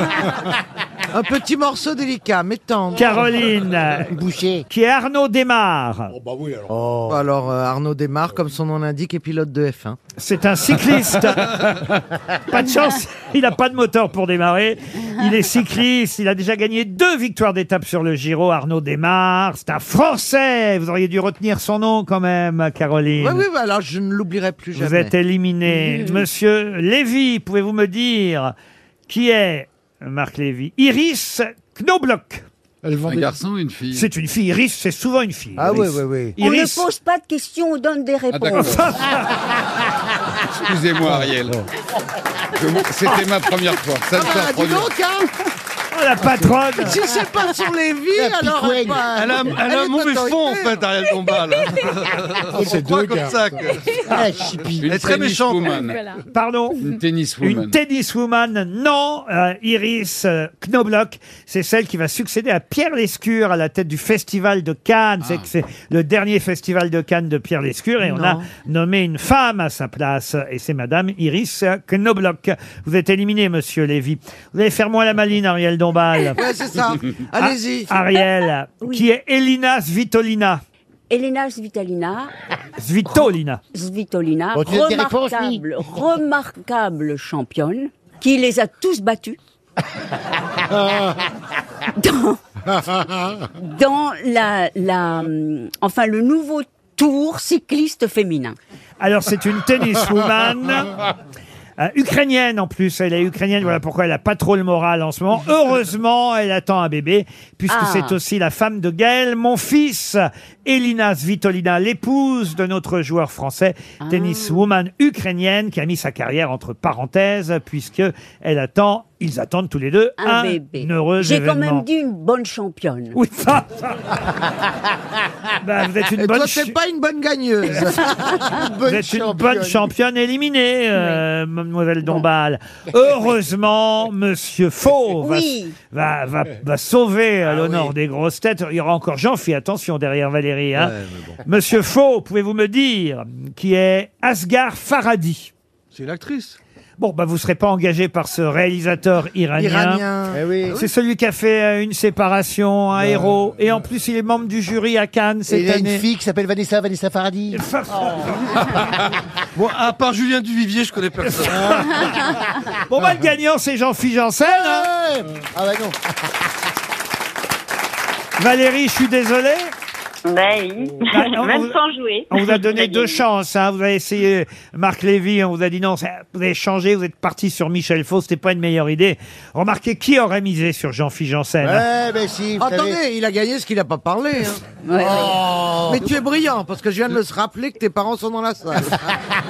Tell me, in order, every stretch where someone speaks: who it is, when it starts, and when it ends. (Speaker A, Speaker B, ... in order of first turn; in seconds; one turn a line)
Speaker A: 1.1-3.2
Speaker B: 2.9-6.2
Speaker C: 4.1-4.7
Speaker D: 6.1-6.8
Speaker C: 6.7-7.2
Speaker A: 7.1-10.0
Speaker B: 10.2-23.4
Speaker A: 23.2-25.1
Speaker B: 24.8-28.5
Speaker B: 29.1-32.5
Speaker D: 32.8-33.3
Speaker E: 33.0-34.1
Speaker B: 33.9-36.9
Speaker C: 35.6-36.4
Speaker F: 36.4-38.8
Speaker E: 38.3-39.0
Speaker B: 38.5-39.5
Speaker E: 40.4-41.7
Speaker E: 42.5-44.9
Speaker A: 44.1-45.3
Speaker B: 45.9-47.1
Speaker A: 46.8-51.3
Speaker C: 48.1-49.2
Speaker G: 49.1-54.3
Speaker D: 52.5-53.6
Speaker C: 54.0-54.9
Speaker E: 54.7-56.2
Speaker G: 54.9-55.8
Speaker A: 55.0-55.7
Speaker B: 56.3-76.4
Speaker E: 56.8-57.8
Speaker E: 65.2-65.5
Speaker A: 68.0-68.5
Speaker A: 76.3-78.0
Speaker B: 77.4-80.6
Speaker F: 81.1-82.3
Speaker B: 82.8-83.6
Speaker F: 83.7-89.4
Speaker C: 84.5-85.6
Speaker F: 92.0-98.6
Speaker B: 99.0-101.1
Speaker B: 101.8-121.9
Speaker F: 107.7-108.2
Speaker F: 114.0-114.7
Speaker F: 120.2-123.2
Speaker B: 123.1-124.3
Speaker B: 125.6-126.8
Speaker A: 126.2-128.6
Speaker C: 128.5-129.9
Speaker B: 128.8-145.5
Speaker F: 130.9-131.2
Speaker F: 135.2-135.8
Speaker A: 137.6-137.9
Speaker A: 140.8-141.3
Speaker G: 145.9-146.6
Speaker B: 147.0-150.1
Speaker A: 149.6-150.9
Speaker C: 150.3-150.8
Speaker B: 150.7-156.1
Speaker C: 155.5-158.8
Speaker B: 157.5-158.8
Speaker G: 159.6-161.9
Speaker B: 161.2-164.9
Speaker C: 164.4-166.2
Speaker B: 168.4-169.7
Speaker H: 170.2-173.2
Speaker B: 171.1-171.8
Speaker B: 172.3-181.9
Speaker C: 181.6-183.0
Speaker A: 182.6-184.6
Speaker F: 184.8-185.8
Speaker C: 185.0-186.1
Speaker A: 185.9-189.1